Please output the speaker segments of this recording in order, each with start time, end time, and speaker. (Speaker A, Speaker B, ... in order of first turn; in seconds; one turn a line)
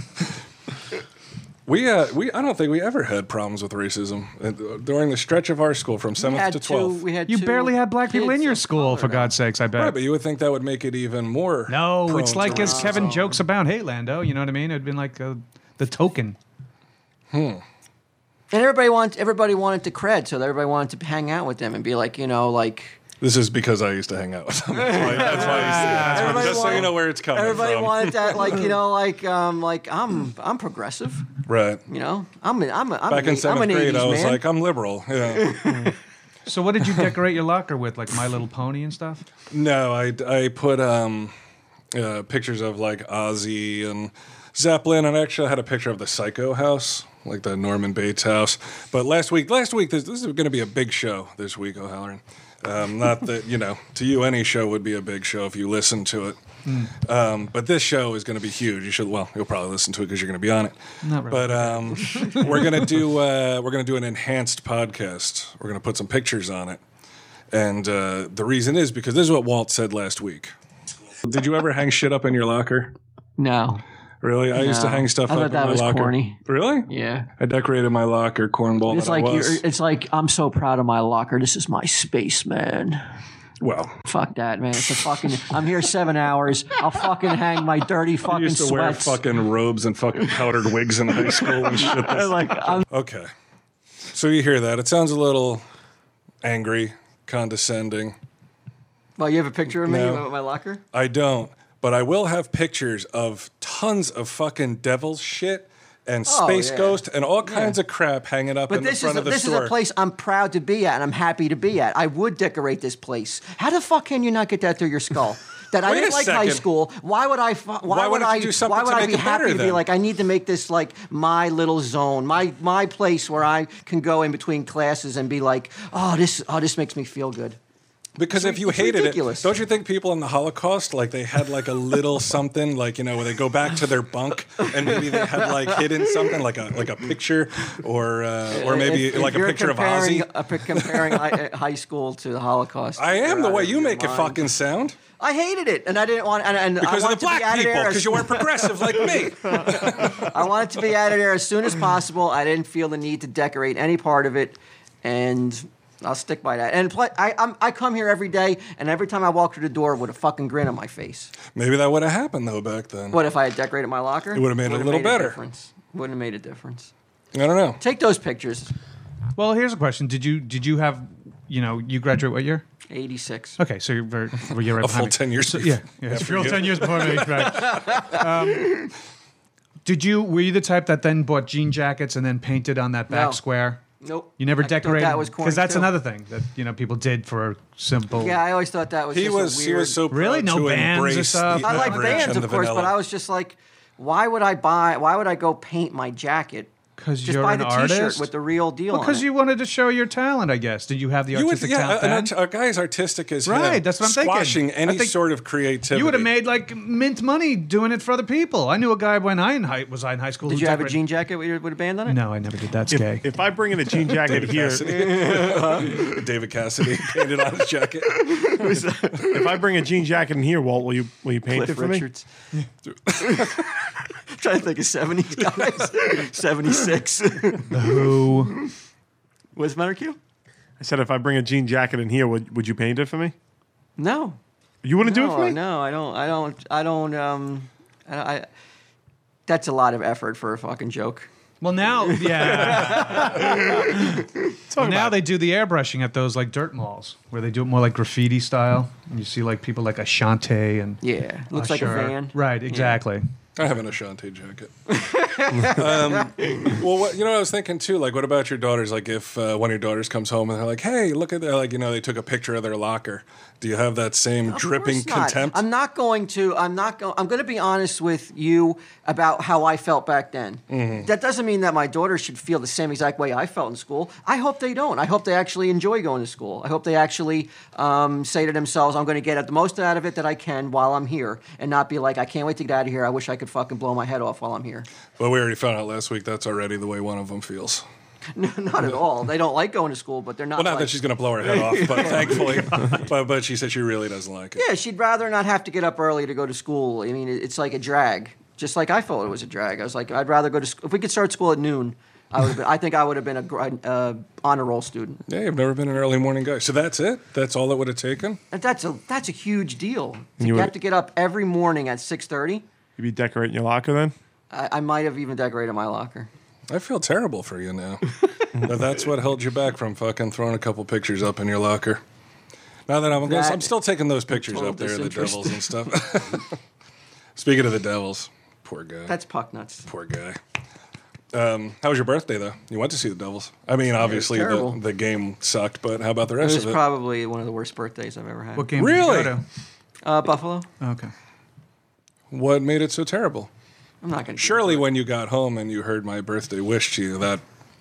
Speaker A: 1.7-7.0
Speaker B: 6.2-9.3
Speaker C: 7.3-10.0
Speaker A: 9.8-13.2
Speaker C: 11.7-16.4
Speaker B: 12.4-13.4
Speaker A: 17.3-17.6
Speaker B: 18.5-23.0
Speaker A: 23.2-28.7
Speaker B: 24.8-31.3
Speaker C: 25.1-26.9
Speaker A: 31.5-31.8
Speaker B: 31.9-34.4
Speaker A: 33.1-35.6
Speaker B: 35.4-35.9
Speaker C: 36.5-39.2
Speaker A: 39.5-41.3
Speaker A: 41.9-56.4
Speaker C: 56.6-56.9
Speaker A: 56.9-66.8
Speaker C: 61.0-62.7
Speaker A: 67.5-70.5
Speaker A: 71.2-72.9
Speaker B: 73.4-73.8
Speaker A: 74.2-79.6
Speaker B: 74.5-77.3
Speaker B: 78.9-83.0
Speaker A: 83.6-84.0
Speaker B: 84.1-89.2
Speaker A: 88.2-93.3
Speaker B: 91.4-92.8
Speaker A: 94.1-95.6
Speaker A: 96.4-98.2
Speaker B: 99.2-100.8
Speaker A: 99.8-100.3
Speaker A: 100.9-109.8
Speaker B: 106.3-107.8
Speaker B: 108.7-127.6
Speaker A: 115.8-116.7
Speaker A: 117.9-119.8
Speaker A: 128.2-141.2
Speaker B: 128.3-129.5
Speaker B: 134.7-136.4
Speaker B: 138.5-144.5
Speaker A: 143.0-145.0
Speaker B: 145.1-161.3
Speaker A: 146.8-150.4
Speaker A: 161.5-163.2
Speaker B: 163.1-166.9
Speaker A: 164.3-165.4
Speaker A: 167.3-167.8
Speaker B: 167.8-168.7
Speaker C: 169.4-172.7
Speaker B: 172.9-173.6
Speaker C: 173.6-178.9
Speaker A: 174.5-178.1
Speaker B: 177.7-178.8
Speaker C: 179.8-183.8
Speaker B: 183.1-183.4
Speaker B: 184.0-185.9
Speaker C: 184.4-188.4
Speaker B: 188.2-190.0
Speaker A: 189.1-193.0
Speaker C: 190.1-192.4
Speaker B: 191.6-196.7
Speaker C: 197.0-198.3
Speaker B: 197.2-199.2
Speaker C: 198.9-202.3
Speaker A: 201.3-206.3
Speaker C: 203.4-205.2
Speaker C: 205.9-211.0
Speaker B: 210.5-212.2
Speaker C: 212.1-213.3
Speaker D: 212.9-215.0
Speaker A: 214.1-218.5
Speaker B: 214.8-216.2
Speaker B: 218.1-219.6
Speaker D: 219.2-222.1
Speaker B: 221.5-222.3
Speaker A: 222.9-223.7
Speaker B: 223.2-223.7
Speaker B: 224.3-228.0
Speaker C: 227.7-228.6
Speaker B: 229.6-230.2
Speaker D: 230.8-233.3
Speaker B: 234.0-234.4
Speaker D: 234.8-235.6
Speaker B: 235.0-238.5
Speaker B: 239.5-241.3
Speaker C: 241.6-243.8
Speaker B: 242.0-244.4
Speaker D: 244.7-245.2
Speaker C: 244.8-251.0
Speaker B: 251.0-253.0
Speaker C: 251.5-253.2
Speaker A: 253.6-254.7
Speaker B: 254.9-256.8
Speaker A: 255.6-265.6
Speaker B: 264.5-284.9
Speaker A: 270.7-271.1
Speaker A: 285.2-287.9
Speaker B: 288.3-293.0
Speaker A: 290.6-294.6
Speaker B: 294.6-305.2
Speaker A: 305.3-308.4
Speaker B: 308.5-312.6
Speaker D: 310.4-310.7
Speaker D: 313.0-314.1
Speaker B: 314.5-316.3
Speaker A: 316.7-322.0
Speaker A: 322.9-326.5
Speaker B: 323.3-323.7
Speaker B: 324.3-325.7
Speaker A: 327.4-329.1
Speaker B: 329.1-329.9
Speaker A: 329.9-330.4
Speaker A: 331.3-336.8
Speaker B: 334.0-334.8
Speaker B: 336.4-338.7
Speaker C: 338.6-339.4
Speaker A: 338.8-339.4
Speaker B: 340.0-340.7
Speaker C: 340.8-341.1
Speaker A: 342.3-343.5
Speaker B: 344.0-344.9
Speaker A: 344.4-347.4